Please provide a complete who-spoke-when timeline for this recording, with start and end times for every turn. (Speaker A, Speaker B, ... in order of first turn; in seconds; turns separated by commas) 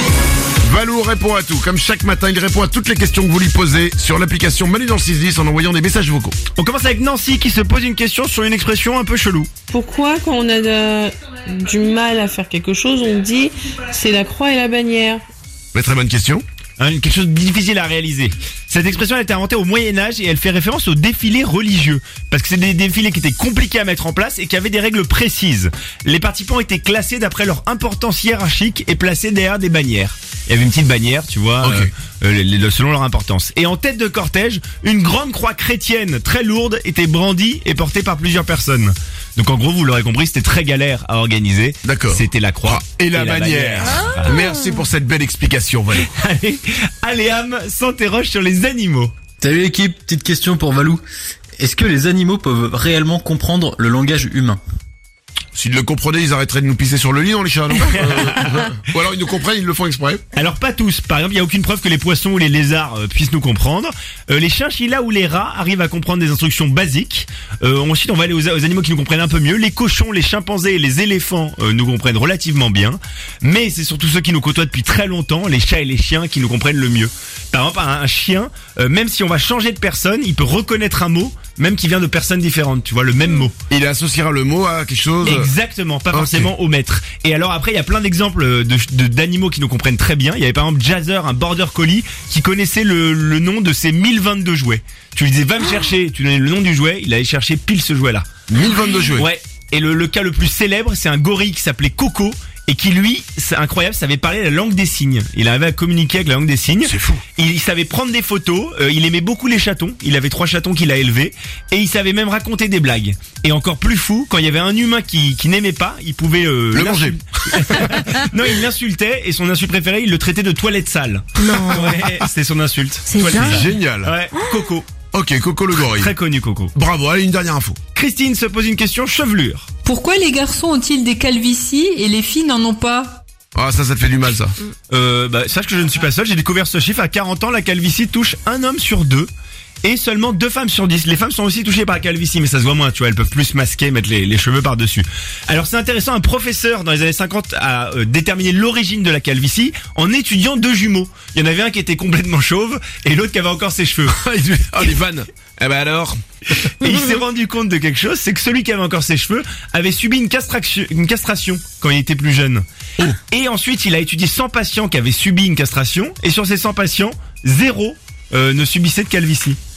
Speaker A: 0.6-6.3, Speaker B: 6.5-9.5, Speaker C: 9.7-15.2, Speaker A: 15.7-16.4, Speaker B: 16.8-44.5, Speaker A: 31.6-31.9, Speaker A: 41.8-46.1, Speaker B: 46.0-49.1, Speaker D: 49.4-51.0, Speaker D: 51.6-54.6, Speaker A: 55.5-60.2, Speaker B: 57.7-58.8, Speaker B: 60.3-83.5, Speaker A: 83.7-85.5, Speaker B: 85.2-98.3, Speaker A: 86.1-86.5, Speaker A: 98.5-99.3, Speaker B: 99.2-124.9, Speaker A: 106.8-107.2, Speaker A: 116.7-118.0, Speaker A: 121.7-122.0, Speaker A: 123.2-124.1, Speaker A: 125.1-126.1, Speaker B: 125.7-126.7, Speaker A: 126.7-127.8, Speaker B: 127.9-129.7, Speaker E: 129.8-133.2, Speaker A: 133.5-134.5, Speaker B: 134.9-139.3, Speaker B: 139.8-154.2, Speaker A: 154.1-156.2, Speaker B: 156.6-169.6